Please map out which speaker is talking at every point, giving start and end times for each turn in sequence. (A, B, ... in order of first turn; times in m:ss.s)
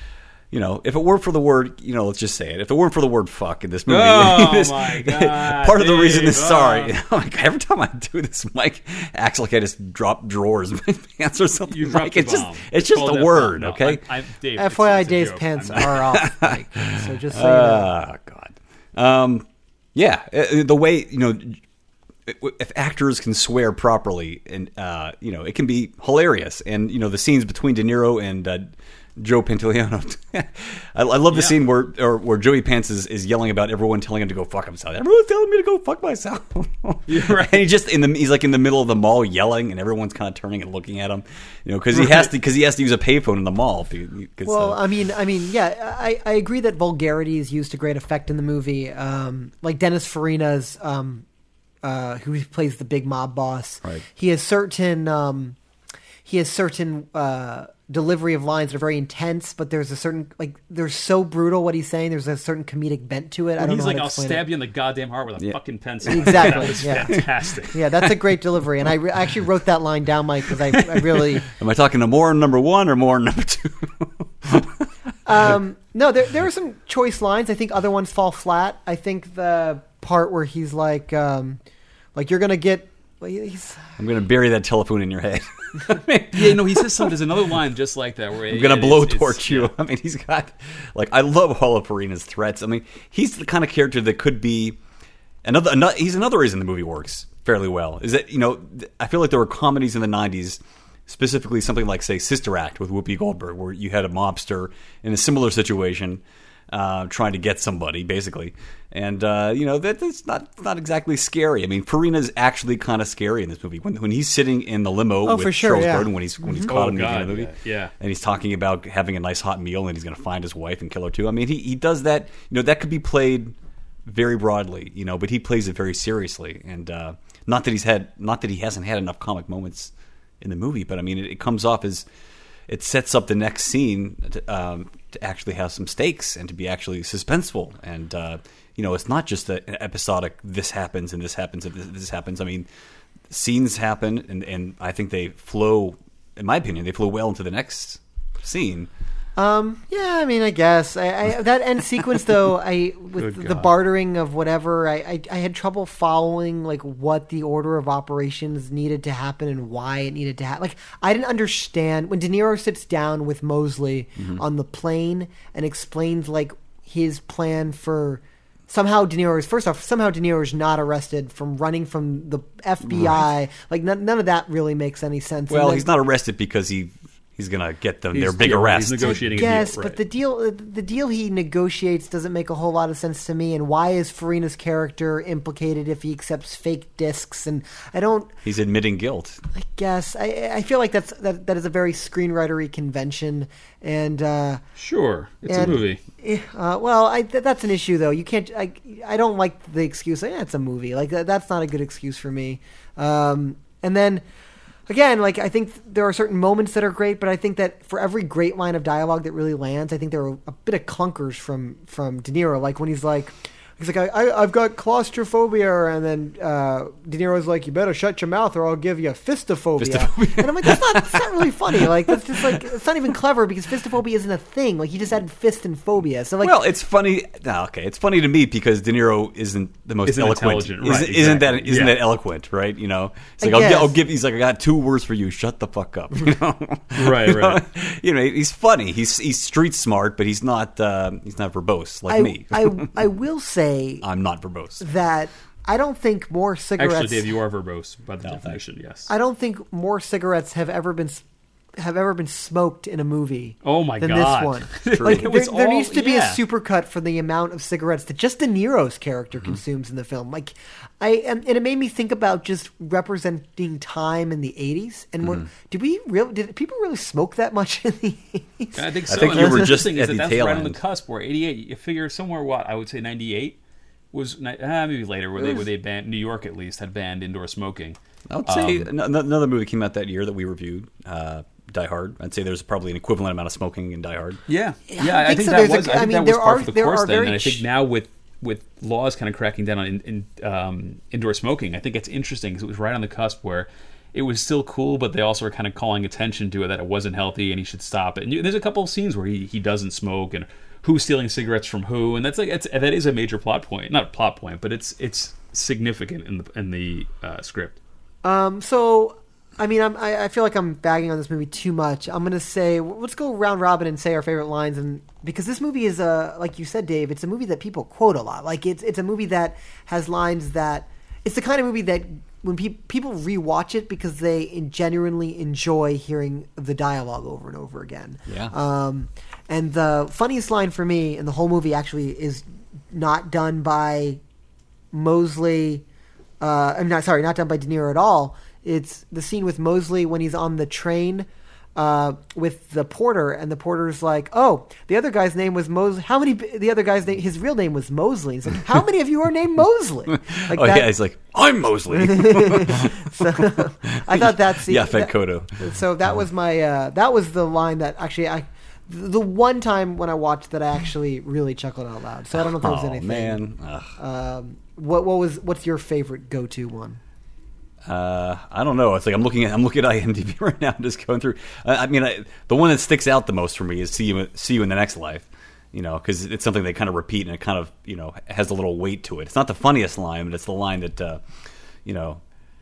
0:00.5-0:14.0 A
0:03.9-0:06.9 B
0:11.7-0:16.0 B
0:14.6-0:17.9 C
0:15.8-0:21.6 A
0:22.2-0:44.8 A
0:31.3-0:31.6 B
0:37.1-0:37.6 B
0:44.4-0:51.2 C
0:51.8-0:55.6 C
0:56.2-1:04.4 C
1:03.6-1:07.8 B
1:05.4-1:07.6 A
1:06.1-1:07.2 C
1:07.7-1:11.5 C
1:11.5-1:14.9 A
1:15.2-1:21.6 C
1:22.1-1:24.0 C
1:24.0-1:27.1 A
1:26.3-1:29.7 B
1:28.5-1:34.8 A
1:35.4-2:12.0 A
1:55.2-1:56.7 C
1:56.6-1:57.9 B
2:12.7-2:22.7 A
2:23.3-2:28.9 A
2:29.4-2:55.9 C
2:33.2-2:33.7 B
2:44.2-2:44.4 A
2:52.8-2:53.2 A
2:55.5-2:59.5 A
2:58.1-3:00.0 B
2:59.0-3:08.3 C
3:08.4-3:09.4 A
3:09.5-3:14.6 C
3:14.8-3:16.0 B
3:15.5-3:24.2 C
3:15.5-3:15.8 A
3:24.9-3:46.5 C
3:39.8-3:42.6 A
3:46.4-4:03.0 A
3:50.0-3:52.0 B
3:53.4-3:54.0 C
3:57.0-3:57.6 B
4:02.1-4:04.0 C
4:04.0-4:04.8 A
4:04.8-4:07.2 C
4:06.8-4:09.1 B
4:08.2-4:08.5 A
4:09.1-4:11.2 C
4:11.8-4:29.7 C
4:13.6-4:16.4 B
4:15.0-4:15.3 A
4:28.7-4:33.6 B
4:29.1-4:30.8 A
4:34.1-4:38.9 B
4:38.3-4:44.4 A
4:44.5-5:07.8 B
4:44.9-4:47.6 C
5:08.2-5:34.2 C
5:28.3-5:28.5 A
5:34.9-5:35.8 C
5:36.4-5:50.9 C
5:50.1-5:55.7 A
5:51.9-6:03.4 C
6:02.3-6:03.9 A
6:04.0-6:07.0 C
6:07.8-6:21.2 A
6:21.8-6:22.2 A